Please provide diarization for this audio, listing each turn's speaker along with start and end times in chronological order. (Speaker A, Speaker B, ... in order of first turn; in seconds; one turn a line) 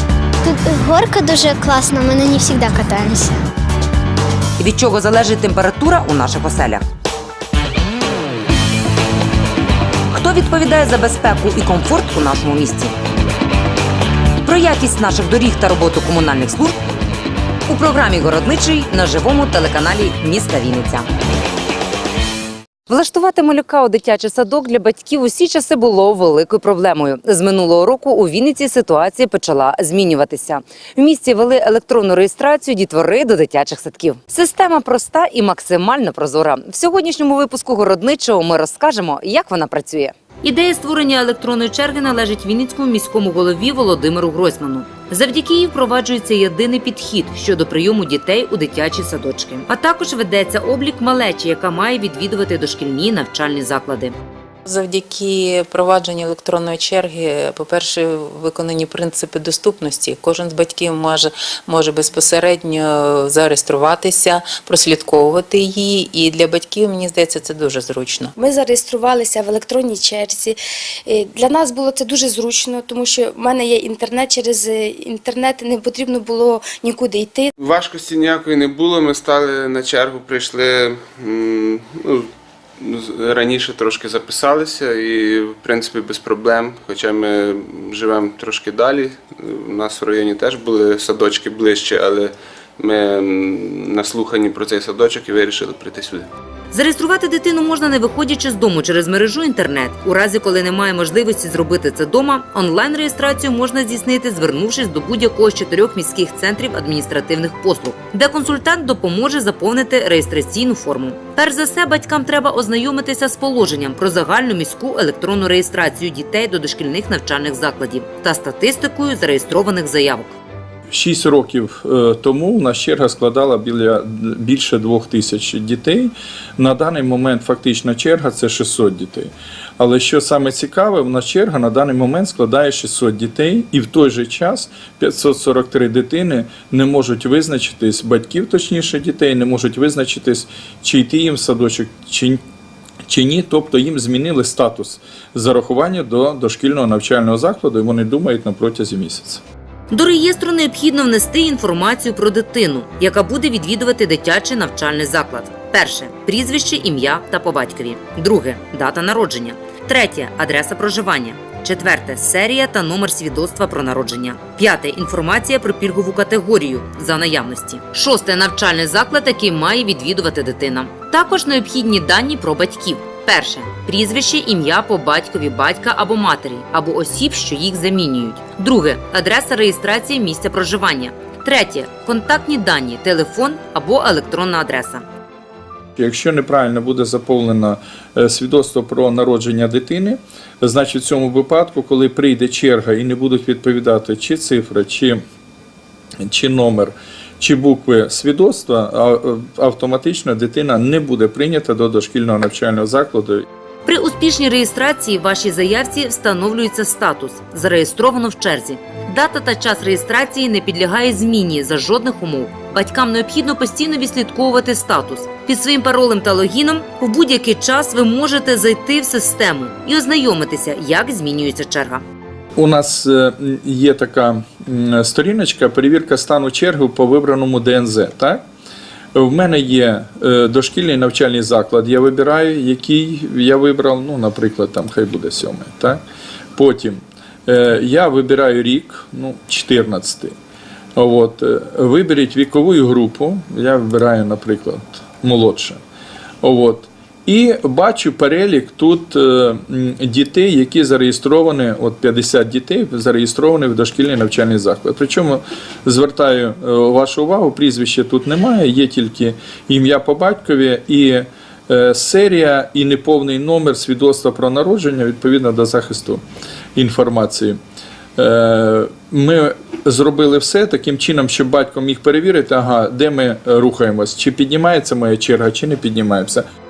Speaker A: 0.4-3.4
Speaker B: 4.6-6.8
Speaker B: 10.1-12.9
Speaker B: 14.4-16.8
Speaker B: 17.7-21.1
Speaker B: 22.9-54.1
Speaker C: 54.6-68.3
Speaker D: 68.4-77.5
Speaker E: 77.6-82.3
Speaker E: 82.8-96.3
Speaker B: 96.7-120.3
Speaker F: 120.9-142.4
Speaker F: 143.1-149.4
Speaker B: 149.9-185.0
Speaker F: 186.0-195.2
Speaker F: 196.2-203.4
Speaker B: 203.8-222.0
Speaker F: 222.6-228.4
Speaker F: 229.1-236.0
Speaker F: 236.5-240.3
Speaker F: 240.9-245.8
Speaker F: 246.4-266.2
Speaker F: 266.7-267.6
Speaker F: 268.2-276.4